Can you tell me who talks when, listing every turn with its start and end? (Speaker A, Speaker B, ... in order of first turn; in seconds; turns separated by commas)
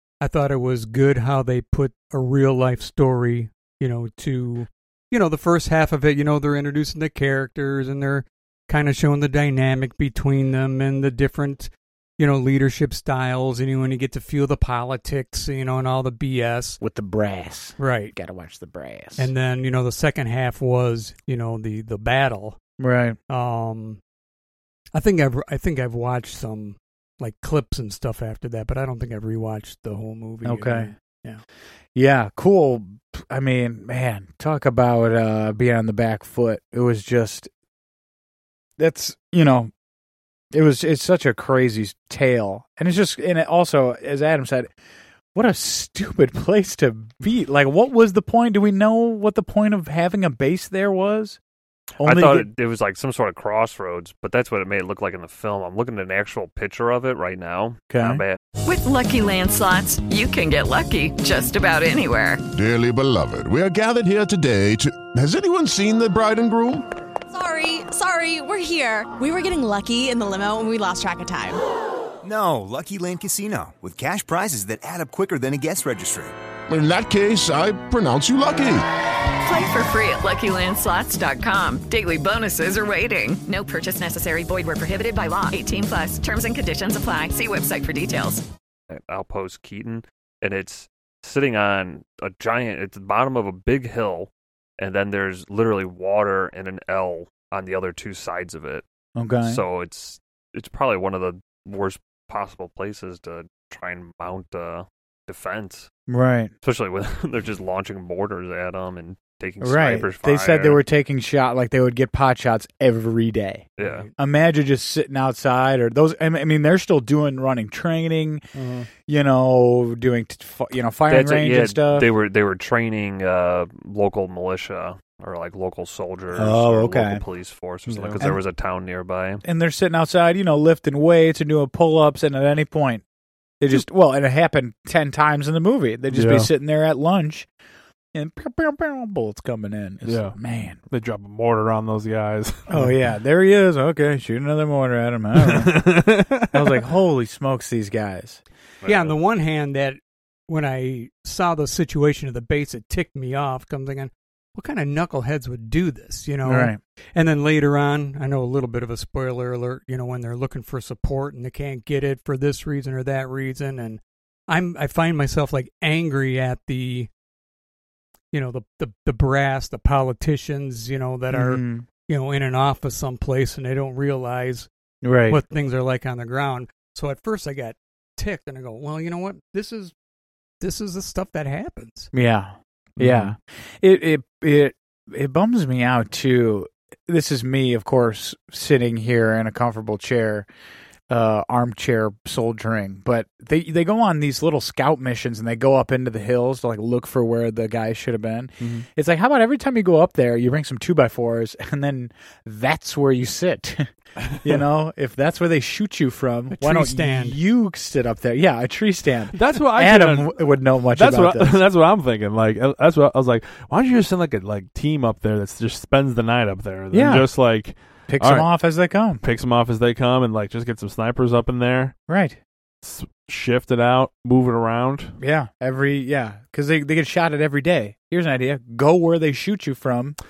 Speaker A: 0.2-16.8, Speaker B: 16.8-19.3, Speaker A: 17.8-18.1, Speaker A: 19.1-22.6, Speaker B: 22.8-23.2, Speaker A: 23.3-24.0, Speaker A: 24.9-31.4, Speaker B: 30.4-30.9, Speaker B: 31.9-37.5, Speaker B: 38.8-39.7, Speaker B: 40.5-44.7, Speaker B: 45.3-51.4, Speaker B: 52.0-52.5, Speaker C: 52.0-58.4, Speaker B: 57.9-58.2, Speaker D: 58.6-62.4, Speaker E: 62.5-66.8, Speaker F: 67.3-71.6, Speaker G: 72.2-76.3, Speaker E: 76.7-78.8, Speaker D: 79.4-88.4, Speaker C: 88.9-98.8, Speaker B: 99.2-99.6, Speaker C: 99.4-105.9, Speaker B: 106.1-106.5, Speaker C: 106.6-110.8, Speaker B: 109.6-118.5, Speaker C: 113.8-114.0, Speaker A: 113.8-114.1, Speaker H: 118.6-118.8, Speaker B: 119.0-122.1, Speaker C: 121.1-129.4, Speaker B: 126.3-127.2, Speaker H: 127.9-128.2, Speaker B: 129.4-133.0, Speaker B: 133.6-137.5, Speaker H: 136.1-136.5, Speaker B: 138.1-140.8, Speaker H: 140.0-140.4, Speaker H: 140.9-142.9, Speaker B: 142.7-145.9, Speaker H: 145.4-146.8, Speaker B: 146.5-148.4, Speaker C: 148.8-149.1, Speaker A: 148.8-167.1, Speaker B: 156.4-156.8, Speaker A: 168.3-174.7, Speaker B: 171.3-171.8, Speaker B: 175.0-175.4, Speaker A: 175.3-179.9, Speaker A: 180.6-182.1, Speaker B: 182.1-190.5, Speaker H: 183.0-183.3, Speaker B: 191.1-211.6, Speaker H: 198.6-198.8, Speaker A: 206.5-207.4, Speaker H: 209.3-218.5, Speaker B: 216.9-217.3, Speaker B: 218.1-219.2, Speaker H: 219.2-221.9, Speaker B: 222.1-222.4, Speaker H: 222.8-225.1, Speaker B: 225.2-230.2